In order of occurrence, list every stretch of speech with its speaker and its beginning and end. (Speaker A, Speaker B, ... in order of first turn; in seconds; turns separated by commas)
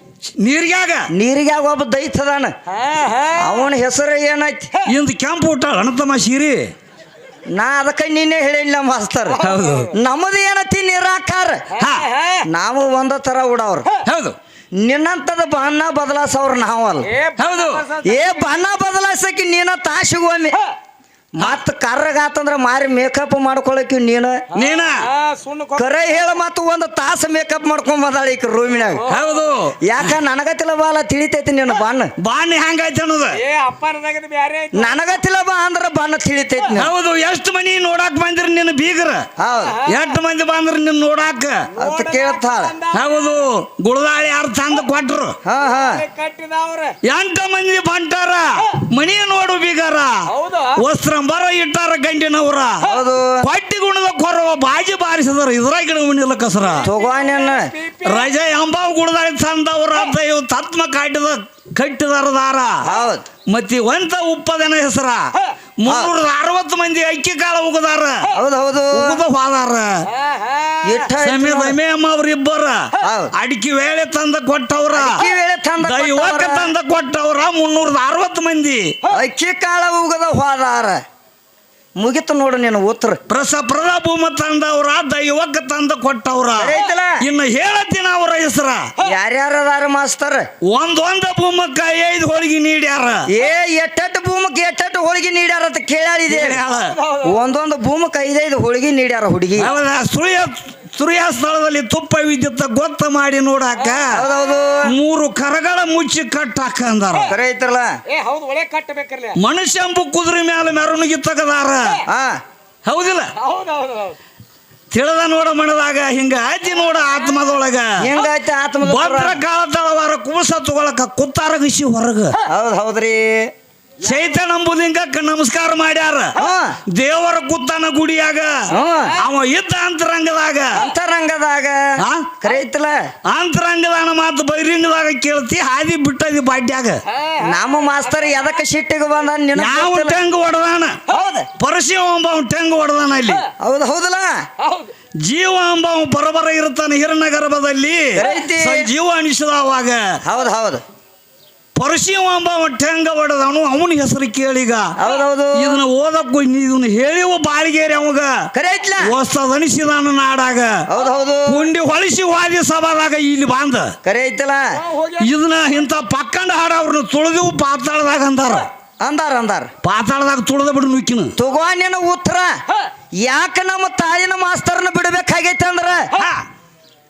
Speaker A: 0.4-1.1, Speaker B: 1.1-2.5, Speaker C: 2.7-3.6, Speaker B: 3.4-4.7, Speaker A: 4.8-6.7, Speaker B: 7.5-11.7, Speaker A: 9.4-9.9, Speaker C: 9.4-9.8, Speaker A: 11.8-12.1, Speaker C: 11.8-12.4, Speaker B: 12.5-13.9, Speaker A: 14.0-14.4, Speaker B: 14.8-17.1, Speaker C: 17.1-18.2, Speaker A: 17.4-17.9, Speaker B: 18.0-20.6, Speaker B: 21.4-24.5, Speaker A: 24.6-25.1, Speaker C: 24.6-26.0, Speaker B: 25.8-29.1, Speaker A: 29.1-30.1, Speaker B: 29.9-32.1, Speaker A: 32.2-33.4, Speaker C: 33.4-35.0, Speaker B: 34.7-36.9, Speaker A: 36.7-39.3, Speaker B: 39.4-39.8, Speaker A: 39.8-41.7, Speaker B: 41.8-42.8, Speaker C: 41.8-43.1, Speaker A: 42.9-45.4, Speaker B: 45.5-46.0, Speaker C: 45.9-47.0, Speaker A: 47.0-52.9, Speaker C: 50.4-50.8, Speaker B: 52.9-53.5, Speaker A: 53.4-56.9, Speaker B: 56.8-57.7, Speaker C: 57.0-58.1, Speaker A: 58.0-62.8, Speaker B: 62.8-63.3, Speaker A: 63.5-68.3, Speaker B: 68.3-69.2, Speaker A: 68.9-70.1, Speaker C: 70.2-70.8, Speaker B: 70.8-71.8, Speaker A: 71.2-75.3, Speaker B: 73.0-73.3, Speaker B: 75.0-76.7, Speaker A: 75.8-79.0, Speaker B: 79.1-81.0, Speaker B: 82.0-83.2, Speaker A: 83.3-88.9, Speaker B: 86.6-87.2, Speaker B: 89.0-90.5, Speaker A: 90.7-93.3, Speaker B: 93.3-96.6, Speaker A: 96.3-97.0, Speaker B: 97.2-99.7, Speaker A: 99.6-104.2, Speaker B: 104.1-104.9, Speaker A: 104.9-107.3, Speaker B: 107.3-108.0, Speaker C: 108.1-109.4, Speaker A: 109.4-112.0, Speaker B: 112.1-112.4, Speaker A: 112.9-113.3, Speaker C: 113.4-114.2, Speaker A: 114.9-118.1, Speaker B: 118.0-119.4, Speaker A: 118.8-122.4, Speaker B: 122.5-123.5, Speaker A: 124.0-126.3, Speaker B: 126.4-126.8, Speaker A: 126.9-130.8, Speaker B: 128.7-129.2, Speaker B: 130.7-133.0, Speaker A: 132.0-132.4, Speaker A: 133.3-137.0, Speaker C: 137.1-137.4, Speaker B: 137.4-140.2, Speaker A: 139.6-141.0, Speaker B: 141.1-141.5, Speaker A: 141.6-143.4, Speaker B: 143.6-144.4, Speaker C: 144.6-144.9, Speaker A: 145.2-150.0, Speaker B: 148.2-148.9, Speaker B: 150.2-150.8, Speaker A: 151.8-155.0, Speaker B: 155.0-155.8, Speaker A: 155.6-158.5, Speaker B: 158.5-159.2, Speaker A: 159.0-160.8, Speaker B: 160.9-161.6, Speaker A: 161.5-163.9, Speaker B: 164.0-164.8, Speaker A: 165.2-168.7, Speaker B: 169.0-169.7, Speaker A: 169.8-171.3, Speaker B: 171.4-172.5, Speaker B: 173.2-176.1, Speaker A: 176.2-176.4